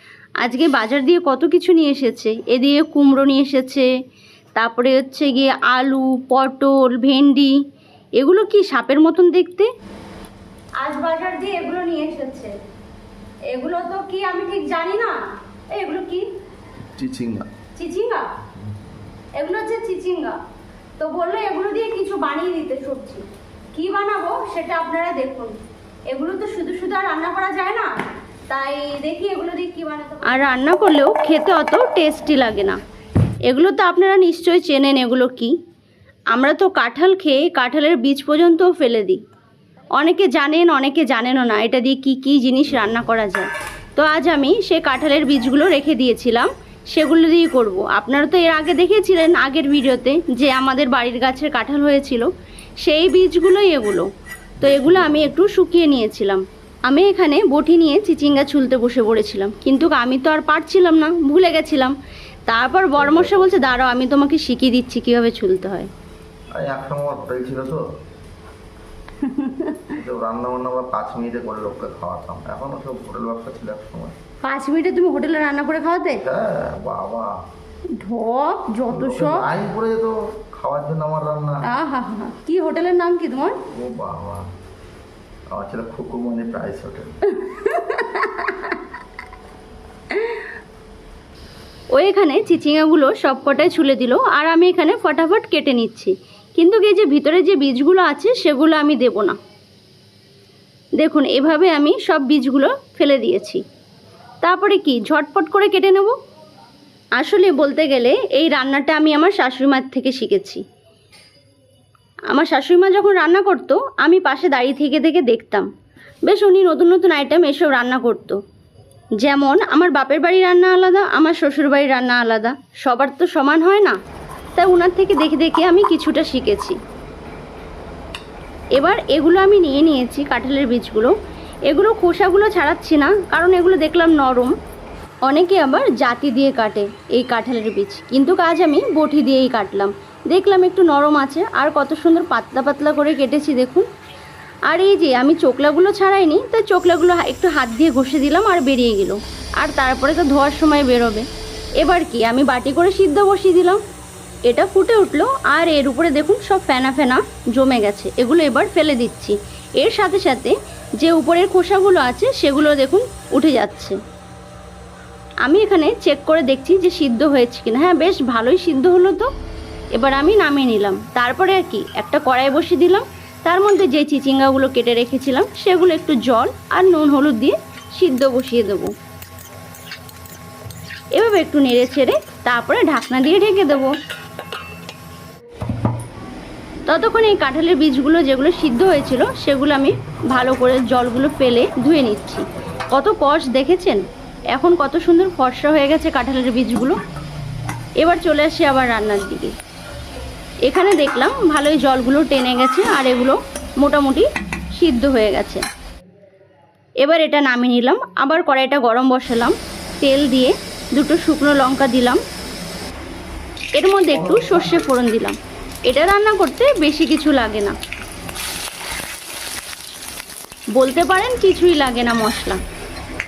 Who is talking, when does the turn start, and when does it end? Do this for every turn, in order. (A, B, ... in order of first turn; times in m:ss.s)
0:00.4-0:03.9 A
0:04.5-0:07.6 A
0:08.2-0:09.7 A
0:10.8-0:12.5 A
0:13.5-0:15.2 A
0:15.7-0:16.3 A
0:17.0-0:17.5 B
0:17.8-0:18.3 A
0:19.4-0:20.4 A
0:21.0-0:25.6 A
0:26.1-0:27.9 A
0:28.5-0:32.8 A
0:33.4-0:35.6 A
0:36.3-0:39.2 A
0:40.0-0:52.3 A
0:52.8-0:54.1 A
0:54.6-1:01.9 A
1:02.5-1:05.9 A
1:03.0-1:03.5 B
1:06.5-1:07.8 B
1:09.2-1:09.9 A
1:09.9-1:14.2 B
1:14.4-1:16.2 A
1:16.2-1:17.4 B
1:17.9-1:19.5 A
1:18.9-1:21.7 B
1:21.6-1:23.6 A
1:23.7-1:24.4 B
1:25.5-1:27.1 B
1:27.2-1:28.8 A
1:30.1-1:30.5 A
1:31.9-1:39.4 A
1:41.0-1:43.6 A
1:44.4-1:46.2 A
1:47.2-1:50.6 A
1:52.3-1:55.7 A
1:56.2-1:58.4 A
1:59.2-2:04.0 A
2:04.6-2:06.8 A
2:08.7-2:11.1 A
2:11.7-2:14.5 A
2:15.2-2:23.9 A
2:24.7-2:31.2 A
2:31.8-2:33.8 A
2:34.4-2:44.0 A
2:45.4-2:49.3 A
2:49.9-2:58.9 A
3:01.1-3:03.9 A
3:06.8-3:17.0 A
3:18.0-3:19.5 A
3:20.6-3:25.6 A
3:27.0-3:32.2 A
3:33.8-3:37.8 A
3:40.7-3:42.6 A